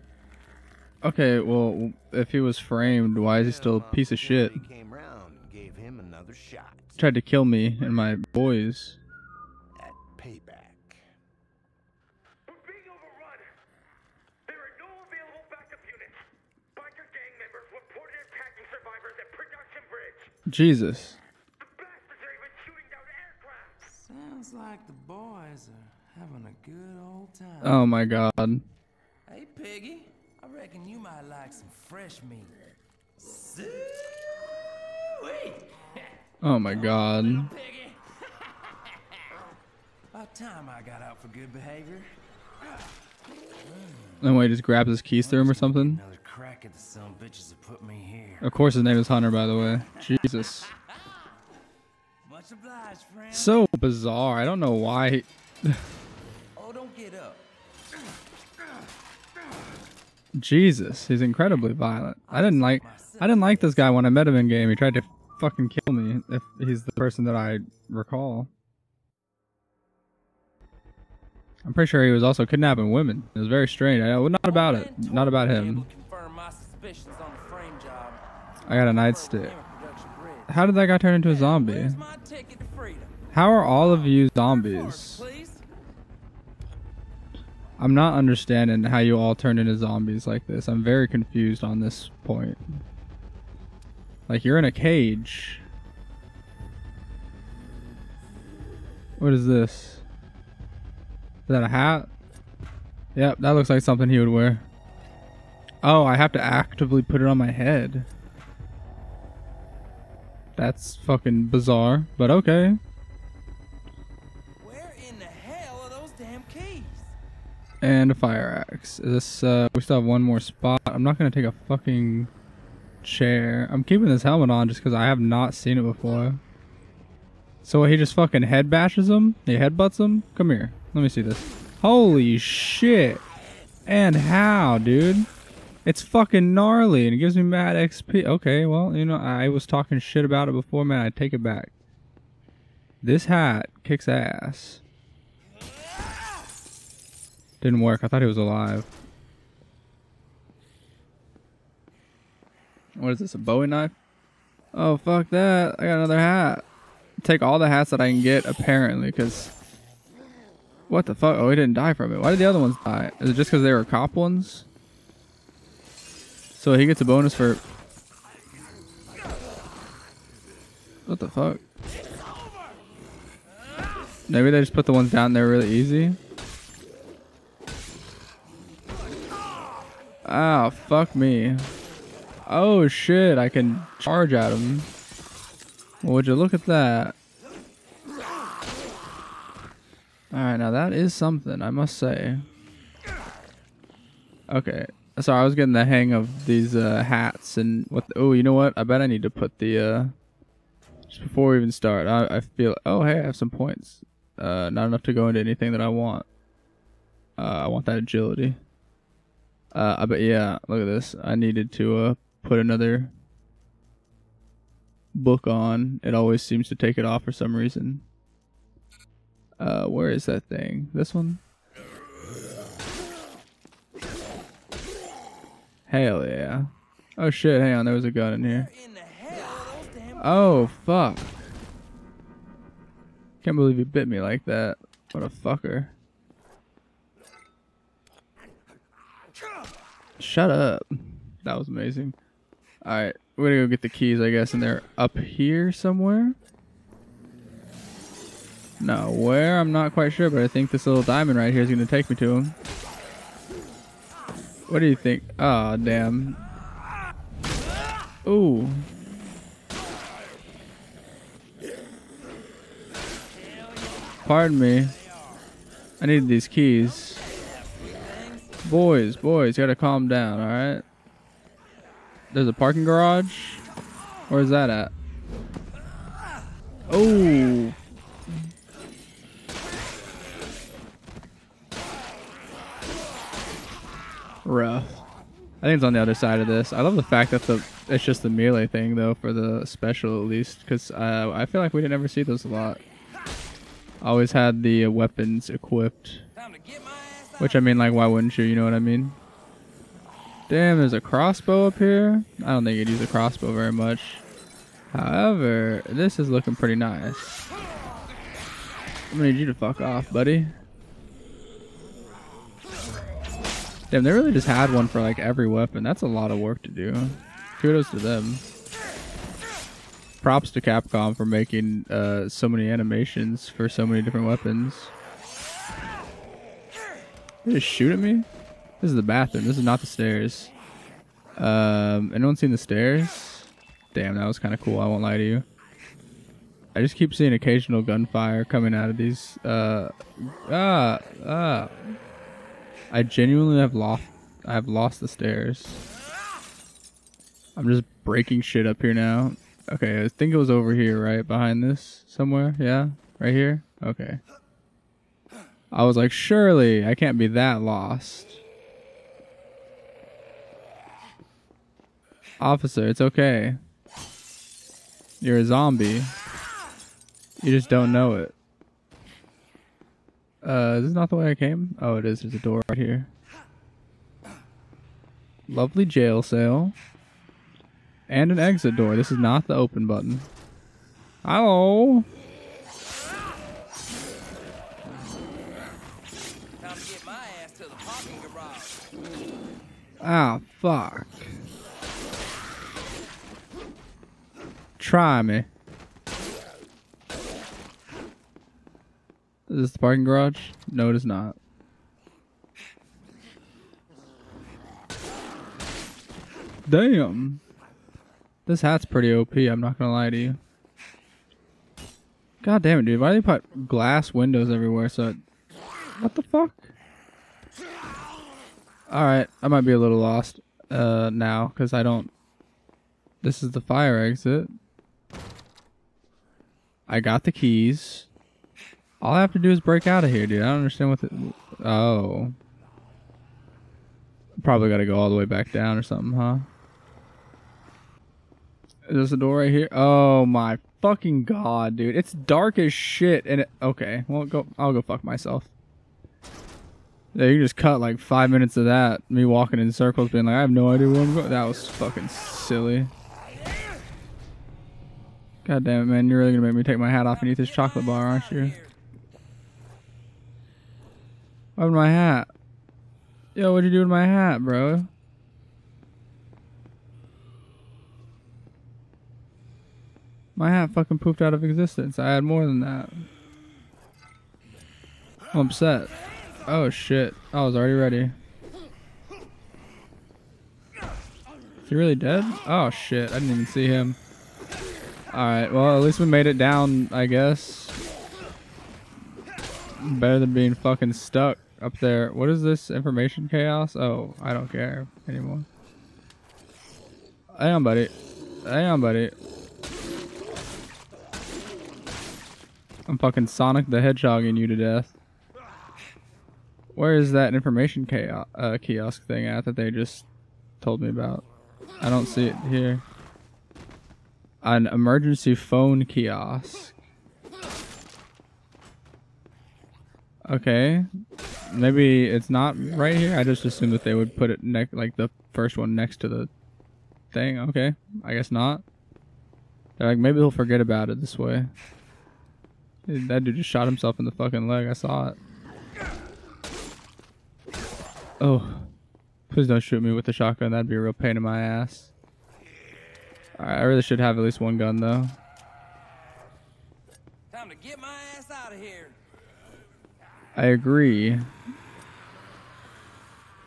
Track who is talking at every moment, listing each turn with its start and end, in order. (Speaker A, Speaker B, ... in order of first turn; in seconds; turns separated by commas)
Speaker A: 1.0-4.6, Speaker B: 2.8-7.0, Speaker A: 7.0-9.0, Speaker B: 9.8-11.0, Speaker C: 12.5-13.5, Speaker C: 14.5-16.2, Speaker C: 16.7-20.4, Speaker A: 20.5-21.2, Speaker C: 21.6-23.8, Speaker D: 23.9-27.9, Speaker A: 27.6-28.6, Speaker D: 29.2-32.5, Speaker D: 33.2-34.1, Speaker D: 35.0-36.1, Speaker A: 36.4-37.5, Speaker D: 36.6-38.8, Speaker D: 40.1-42.1, Speaker D: 43.6-44.2, Speaker A: 44.2-46.0, Speaker D: 45.2-48.5, Speaker A: 48.4-50.7, Speaker D: 52.2-53.6, Speaker A: 53.3-55.8, Speaker D: 56.5-57.4, Speaker A: 60.4-68.5, Speaker D: 62.3-64.1, Speaker A: 71.6-75.9, Speaker D: 74.4-78.2, Speaker A: 78.7-79.5, Speaker D: 78.7-83.2, Speaker A: 80.5-82.0, Speaker A: 83.3-85.2, Speaker D: 83.7-85.6, Speaker A: 87.8-92.8, Speaker A: 94.3-95.6, Speaker A: 99.2-100.0, Speaker A: 101.5-102.1, Speaker A: 103.1-104.7, Speaker A: 105.8-108.1, Speaker A: 110.5-112.8, Speaker D: 114.6-117.1, Speaker A: 117.8-122.3, Speaker A: 123.0-126.4, Speaker A: 127.6-133.2, Speaker A: 133.8-135.3, Speaker A: 135.8-141.7, Speaker A: 143.0-144.8, Speaker A: 147.6-148.9, Speaker A: 152.9-153.9, Speaker A: 154.7-156.6, Speaker A: 157.2-159.5, Speaker A: 160.9-164.7, Speaker A: 166.6-167.6, Speaker A: 171.1-171.6, Speaker A: 174.3-176.2, Speaker A: 180.2-181.7, Speaker A: 182.4-184.9, Speaker A: 186.0-187.1, Speaker A: 190.3-192.4, Speaker A: 194.5-200.1, Speaker A: 201.1-206.2, Speaker A: 207.4-208.6, Speaker A: 209.7-213.1, Speaker A: 215.1-218.0, Speaker A: 219.6-221.4, Speaker A: 225.9-228.7, Speaker D: 228.4-230.7, Speaker A: 230.2-231.3, Speaker A: 233.4-235.9, Speaker A: 240.2-242.1, Speaker A: 242.8-246.3, Speaker A: 248.8-252.5, Speaker A: 254.7-256.4, Speaker A: 258.2-258.9, Speaker D: 263.3-265.5, Speaker A: 264.2-264.9, Speaker A: 266.0-267.2, Speaker D: 266.7-268.6, Speaker A: 268.6-270.8, Speaker A: 272.3-273.6, Speaker A: 274.3-274.9, Speaker A: 276.9-277.8, Speaker A: 284.4-285.0, Speaker A: 285.6-292.8, Speaker A: 294.0-296.2, Speaker D: 296.3-297.8, Speaker A: 297.4-299.2, Speaker A: 300.5-304.2, Speaker A: 304.9-307.4, Speaker A: 309.1-310.5, Speaker A: 313.9-318.4, Speaker A: 320.2-324.9, Speaker A: 327.4-328.3, Speaker A: 328.8-330.5, Speaker A: 331.4-335.4, Speaker A: 336.7-341.9, Speaker A: 342.9-345.8, Speaker A: 347.6-354.2, Speaker A: 355.7-358.4, Speaker A: 362.4-363.6, Speaker A: 365.2-366.1, Speaker A: 367.4-368.3, Speaker A: 370.4-373.1, Speaker A: 375.5-376.7, Speaker A: 378.1-380.3, Speaker A: 381.2-382.1, Speaker D: 386.6-388.8, Speaker A: 390.0-391.4, Speaker A: 394.8-395.5, Speaker A: 399.5-401.4, Speaker A: 406.7-407.4, Speaker A: 408.4-410.4, Speaker A: 412.4-415.2, Speaker A: 416.0-416.7, Speaker A: 418.9-422.1, Speaker A: 423.2-424.5, Speaker A: 426.9-428.1, Speaker A: 429.0-432.4, Speaker A: 434.4-436.5, Speaker A: 438.9-445.5, Speaker A: 447.1-452.9, Speaker A: 455.4-458.5, Speaker D: 457.1-458.8, Speaker A: 461.6-462.3, Speaker A: 463.3-464.9, Speaker A: 470.4-473.0, Speaker A: 475.3-475.9, Speaker A: 476.4-478.1, Speaker A: 481.7-484.0, Speaker A: 485.1-487.8, Speaker A: 489.8-495.5, Speaker A: 497.3-497.9, Speaker A: 498.4-499.1, Speaker A: 502.9-504.9, Speaker A: 506.7-510.0, Speaker A: 510.6-511.2, Speaker A: 511.8-512.8, Speaker A: 514.4-516.8, Speaker A: 520.2-520.9, Speaker A: 521.5-526.3, Speaker A: 527.1-528.6, Speaker A: 529.8-531.5, Speaker A: 532.9-535.2, Speaker A: 538.2-538.7, Speaker A: 539.3-541.9, Speaker A: 543.4-545.1, Speaker D: 547.3-549.0, Speaker A: 550.3-551.3